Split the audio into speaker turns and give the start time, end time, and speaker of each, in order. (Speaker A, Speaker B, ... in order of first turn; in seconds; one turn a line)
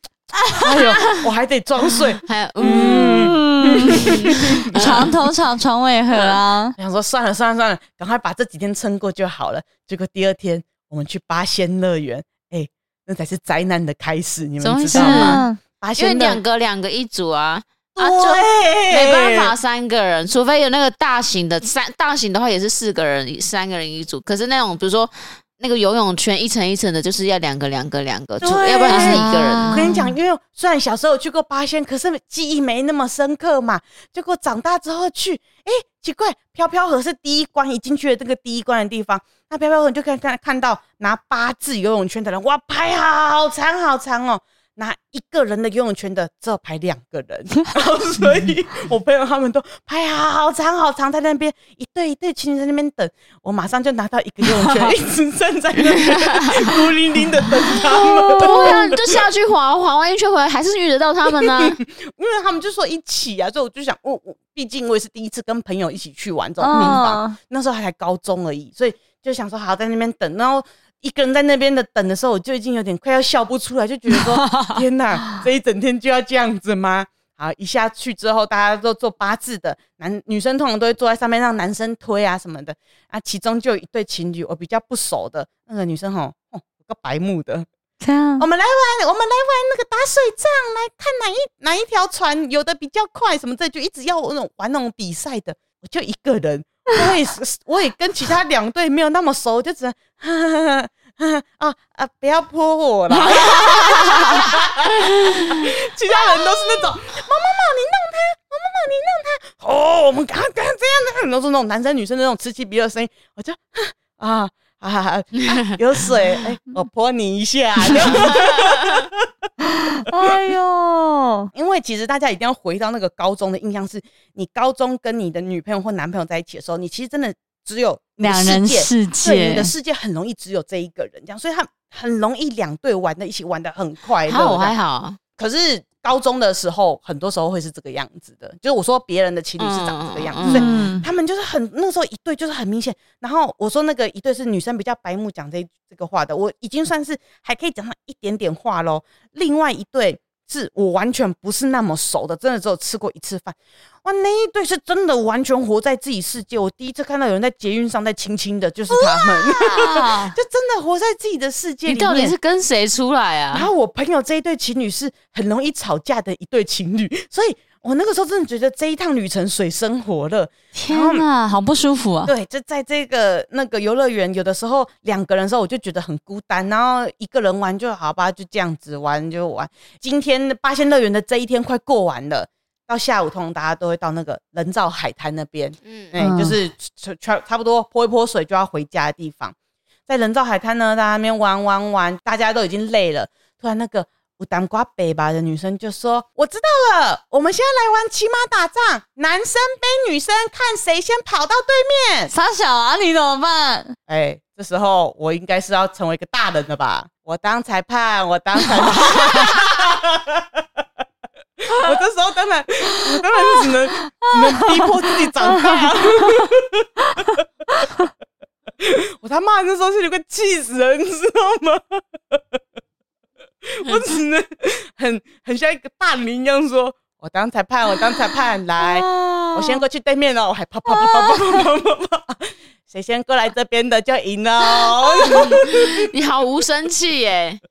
Speaker A: 0.5-1.1
Speaker B: 0.5-5.1
Speaker C: 2.3-3.4
Speaker A: 2.6-6.8
Speaker C: 4.0-5.1
Speaker B: 6.8-16.4
Speaker C: 14.6-15.4
Speaker A: 14.9-15.6
Speaker C: 16.0-29.9
Speaker B: 18.0-19.6
Speaker B: 28.4-59.3
Speaker A: 28.9-30.2
Speaker A: 54.4-54.9
Speaker C: 58.3-61.8
Speaker A: 58.4-58.9
Speaker B: 61.3-87.7
Speaker A: 66.6-67.4
Speaker C: 66.8-67.0
Speaker A: 74.1-75.4
Speaker A: 88.0-88.5
Speaker B: 88.4-119.3
Speaker C: 103.2-104.5
Speaker C: 105.2-105.6
Speaker A: 119.7-121.5
Speaker B: 121.5-134.8
Speaker A: 128.2-129.7
Speaker C: 134.3-135.2
Speaker B: 135.4-162.3
Speaker C: 139.6-140.7
Speaker A: 140.4-141.1
Speaker A: 158.9-160.4
Speaker C: 161.9-163.7
Speaker B: 163.5-171.2
Speaker A: 170.7-172.3
Speaker B: 172.3-189.6
Speaker C: 185.8-186.1
Speaker A: 186.2-186.6
Speaker B: 190.1-202.3
Speaker A: 202.3-204.0
Speaker B: 204.1-210.6
Speaker A: 208.8-209.5
Speaker B: 211.7-217.4
Speaker A: 213.1-216.5
Speaker A: 217.1-218.1
Speaker B: 218.8-222.6
Speaker B: 223.6-236.1
Speaker A: 228.9-229.6
Speaker A: 230.9-231.4
Speaker C: 235.2-237.6